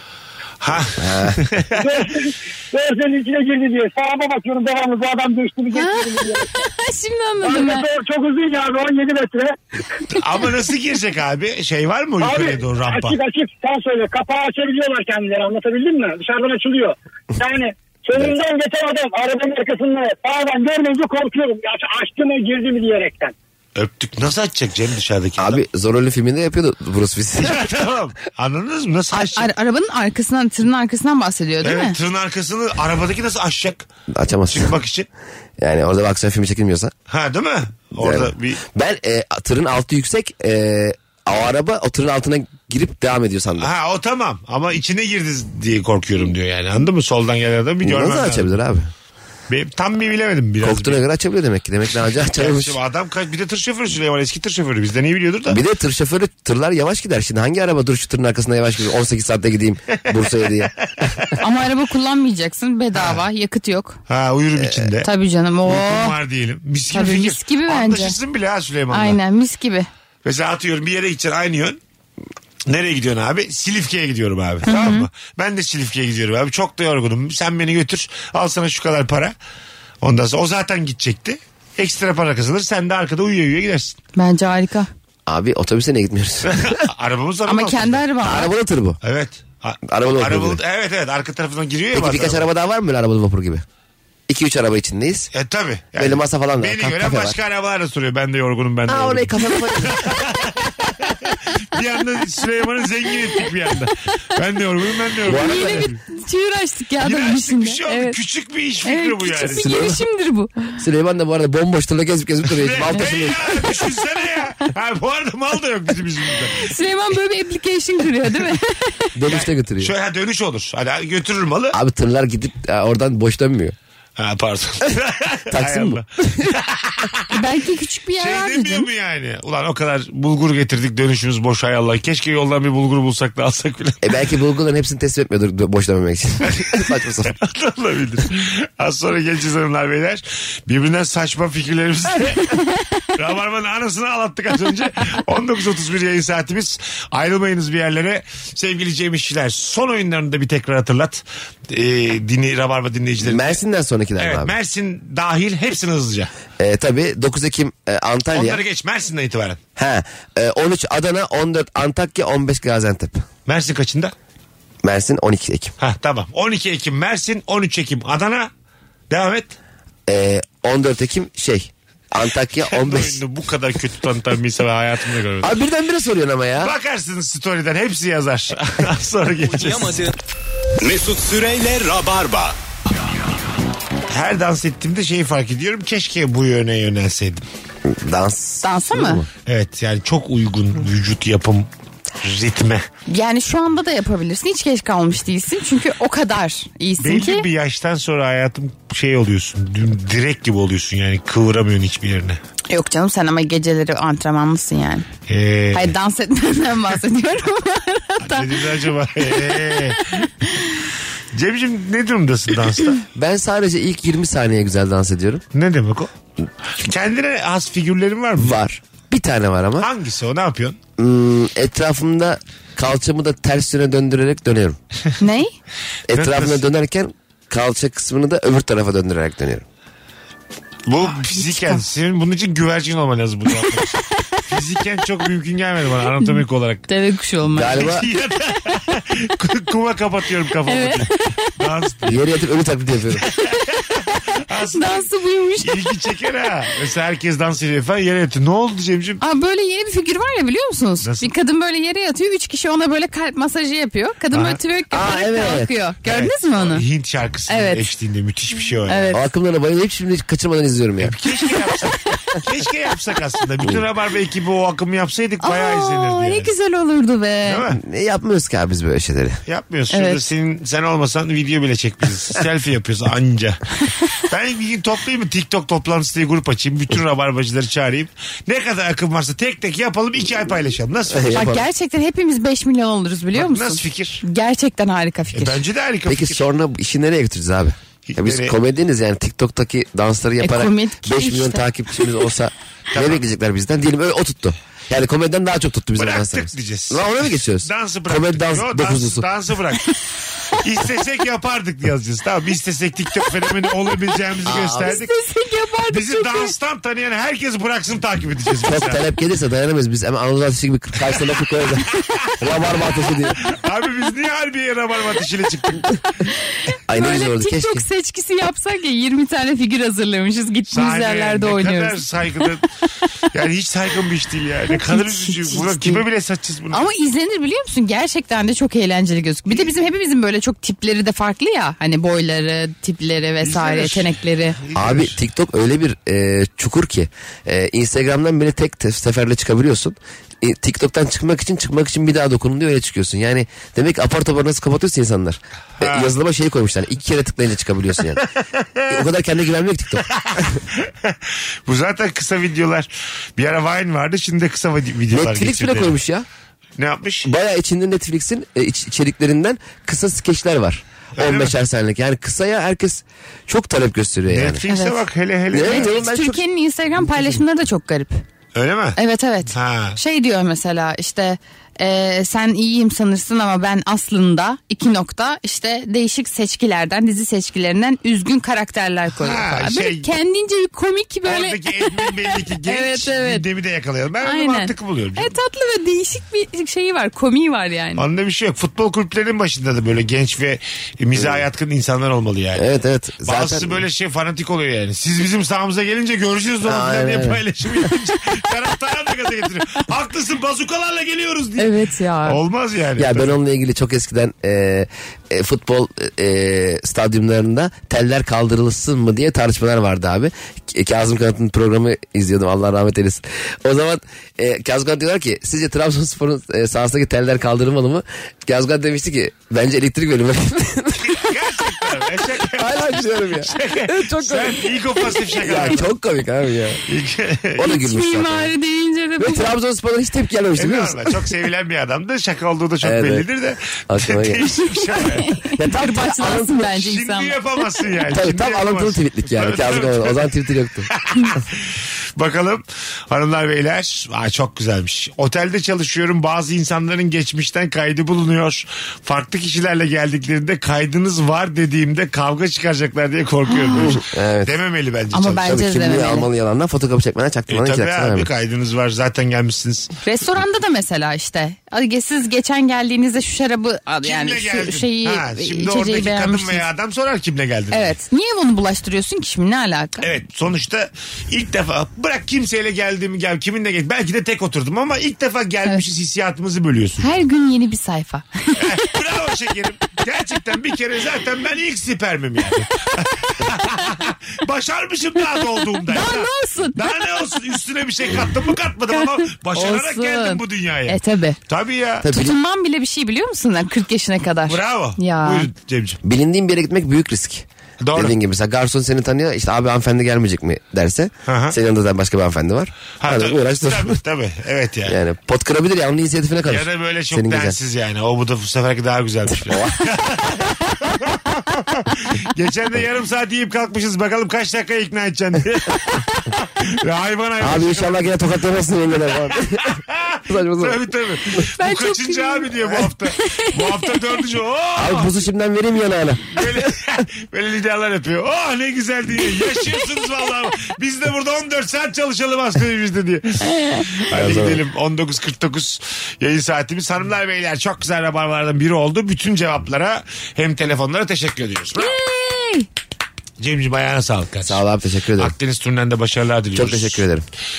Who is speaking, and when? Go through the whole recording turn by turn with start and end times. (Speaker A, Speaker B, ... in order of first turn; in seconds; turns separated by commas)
Speaker A: 0.6-1.8, Speaker B: 1.0-1.4, Speaker C: 1.8-6.5, Speaker D: 5.7-7.8, Speaker C: 7.4-9.6, Speaker A: 10.1-13.2, Speaker C: 12.2-23.3, Speaker A: 23.8-25.6, Speaker B: 25.4-27.6, Speaker A: 27.4-29.5, Speaker D: 29.1-32.0, Speaker A: 31.6-33.9, Speaker B: 34.1-34.7, Speaker A: 34.5-35.1, Speaker B: 35.6-36.9, Speaker A: 37.1-38.6, Speaker B: 38.0-43.7, Speaker A: 43.6-48.6, Speaker B: 47.8-48.9, Speaker A: 49.5-51.0, Speaker B: 50.6-52.8, Speaker A: 52.2-55.6, Speaker B: 55.5-60.7, Speaker D: 61.4-64.0, Speaker A: 63.0-63.2, Speaker A: 64.1-65.1, Speaker B: 64.6-64.9, Speaker D: 65.0-66.2, Speaker A: 65.7-69.2, Speaker D: 66.9-68.2, Speaker D: 68.9-69.9, Speaker A: 70.2-71.8, Speaker A: 72.7-79.3, Speaker D: 74.7-75.1, Speaker A: 80.0-84.0, Speaker D: 84.2-84.9, Speaker B: 85.3-86.8, Speaker A: 86.5-88.0, Speaker D: 87.5-88.5, Speaker B: 88.2-89.0, Speaker A: 89.0-92.5, Speaker B: 89.9-90.6, Speaker B: 91.9-93.6, Speaker B: 94.3-95.3, Speaker A: 95.3-106.0, Speaker B: 96.0-97.4, Speaker B: 98.9-100.0, Speaker B: 105.3-105.9, Speaker D: 105.3-108.2, Speaker A: 107.0-109.9, Speaker D: 108.8-110.8, Speaker B: 109.6-110.0, Speaker B: 110.8-113.7, Speaker A: 112.5-116.7, Speaker D: 116.4-119.1, Speaker B: 119.2-119.9, Speaker A: 119.3-121.8, Speaker B: 121.7-123.8, Speaker A: 124.2-127.3, Speaker B: 125.5-126.5, Speaker D: 127.3-128.9, Speaker A: 128.2-134.0, Speaker B: 134.0-137.3, Speaker A: 137.3-142.6, Speaker A: 143.2-153.6, Speaker B: 153.2-154.5, Speaker A: 154.2-156.3, Speaker B: 156.6-158.6, Speaker A: 158.3-159.6, Speaker B: 159.8-163.2, Speaker A: 163.5-164.1, Speaker B: 164.8-165.7, Speaker A: 165.8-168.5, Speaker A: 169.1-169.6, Speaker B: 170.1-173.2, Speaker A: 172.7-175.6, Speaker B: 175.4-176.7, Speaker A: 176.6-180.1, Speaker E: 179.6-180.1, Speaker E: 180.8-182.6, Speaker A: 184.1-187.4, Speaker B: 187.9-189.3, Speaker D: 188.6-189.2, Speaker A: 189.5-191.7, Speaker A: 192.2-192.9, Speaker D: 193.1-197.5, Speaker A: 197.0-202.4, Speaker D: 202.7-205.1, Speaker A: 205.3-205.9, Speaker D: 205.7-208.5, Speaker A: 208.3-210.3, Speaker A: 211.3-213.0, Speaker B: 213.2-215.4, Speaker A: 215.5-216.1, Speaker A: 216.8-218.5, Speaker B: 218.4-219.9, Speaker A: 219.8-220.8, Speaker B: 221.0-224.8, Speaker D: 225.2-225.5, Speaker B: 226.1-229.7, Speaker A: 226.1-226.6, Speaker A: 230.9-236.8, Speaker D: 231.1-231.8, Speaker D: 236.9-237.9, Speaker B: 237.5-238.1, Speaker A: 237.7-242.2, Speaker D: 240.7-241.5, Speaker B: 242.1-243.2, Speaker A: 243.2-245.1, Speaker D: 244.7-245.7, Speaker A: 245.6-249.2, Speaker D: 249.2-256.8, Speaker A: 251.0-251.3, Speaker A: 254.3-254.6, Speaker B: 254.9-255.7, Speaker A: 256.1-259.1, Speaker D: 257.5-257.8, Speaker D: 258.9-259.2, Speaker B: 259.1-261.1, Speaker A: 261.0-266.5, Speaker D: 265.4-267.6, Speaker A: 267.4-267.8, Speaker B: 267.7-269.4, Speaker A: 269.5-273.6, Speaker D: 269.9-270.2, Speaker A: 274.3-281.4, Speaker B: 281.1-281.6, Speaker D: 281.3-285.6, Speaker A: 283.3-284.2, Speaker A: 285.3-286.4, Speaker B: 286.1-299.3, Speaker A: 288.1-288.6, Speaker D: 290.4-291.6, Speaker A: 292.9-293.2, Speaker A: 296.0-299.9, Speaker A: 300.6-305.1, Speaker B: 304.5-305.0, Speaker D: 304.8-306.5, Speaker A: 305.9-309.0, Speaker B: 308.6-311.9, Speaker B: 312.4-313.4, Speaker A: 313.4-316.0, Speaker B: 316.9-317.9, Speaker D: 316.9-322.0, Speaker A: 320.7-322.6, Speaker A: 323.3-326.9, Speaker D: 324.8-326.0, Speaker D: 326.7-334.6, Speaker A: 333.4-335.2, Speaker B: 334.8-348.2, Speaker A: 345.8-346.1, Speaker B: 348.9-350.6, Speaker A: 350.2-355.9, Speaker B: 355.1-356.3, Speaker A: 356.8-357.3, Speaker B: 357.2-364.6, Speaker A: 361.2-361.5, Speaker A: 364.3-366.0, Speaker D: 364.7-365.0, Speaker B: 365.5-366.4, Speaker D: 365.6-368.2, Speaker A: 368.6-369.0, Speaker D: 369.0-383.4, Speaker A: 369.5-370.0, Speaker A: 379.2-380.1, Speaker A: 381.3-385.4, Speaker D: 384.2-388.0, Speaker A: 388.0-392.7, Speaker B: 391.2-391.4, Speaker B: 392.6-393.8, Speaker A: 393.2-403.3, Speaker B: 396.6-397.4, Speaker D: 401.6-402.4, Speaker B: 403.0-421.2, Speaker A: 421.0-425.9, Speaker B: 422.4-424.7, Speaker B: 425.4-426.8, Speaker A: 426.9-427.6, Speaker B: 427.6-428.5, Speaker D: 427.6-429.5, Speaker B: 429.2-431.1, Speaker A: 430.6-435.3, Speaker B: 432.8-433.2, Speaker B: 433.9-434.5, Speaker D: 435.0-437.4, Speaker B: 435.6-436.6, Speaker A: 436.7-440.2, Speaker B: 438.1-440.9, Speaker A: 440.9-441.4, Speaker A: 442.2-455.6, Speaker D: 453.5-453.9, Speaker B: 453.8-454.5, Speaker D: 455.1-456.3, Speaker B: 455.4-458.3, Speaker A: 457.5-459.9, Speaker D: 460.0-466.7, Speaker A: 464.0-467.9, Speaker D: 467.7-470.1, Speaker A: 470.0-477.1, Speaker D: 477.0-478.6, Speaker A: 478.6-492.1, Speaker D: 485.4-487.0, Speaker D: 488.9-491.4, Speaker B: 492.0-492.4, Speaker D: 492.1-495.5, Speaker A: 494.5-496.0, Speaker B: 496.0-504.0, Speaker A: 497.8-498.1, Speaker A: 501.3-501.6, Speaker A: 503.0-505.0, Speaker B: 504.9-507.6, Speaker A: 506.5-518.2, Speaker B: 509.5-509.9, Speaker B: 517.4-520.8, Speaker A: 519.6-525.2, Speaker D: 521.6-522.5, Speaker D: 523.2-523.9, Speaker B: 524.8-526.7, Speaker A: 526.3-541.9, Speaker B: 534.1-534.6, Speaker D: 541.8-542.7, Speaker A: 543.4-544.6, Speaker B: 544.4-545.3, Speaker A: 545.2-547.0, Speaker B: 546.5-547.2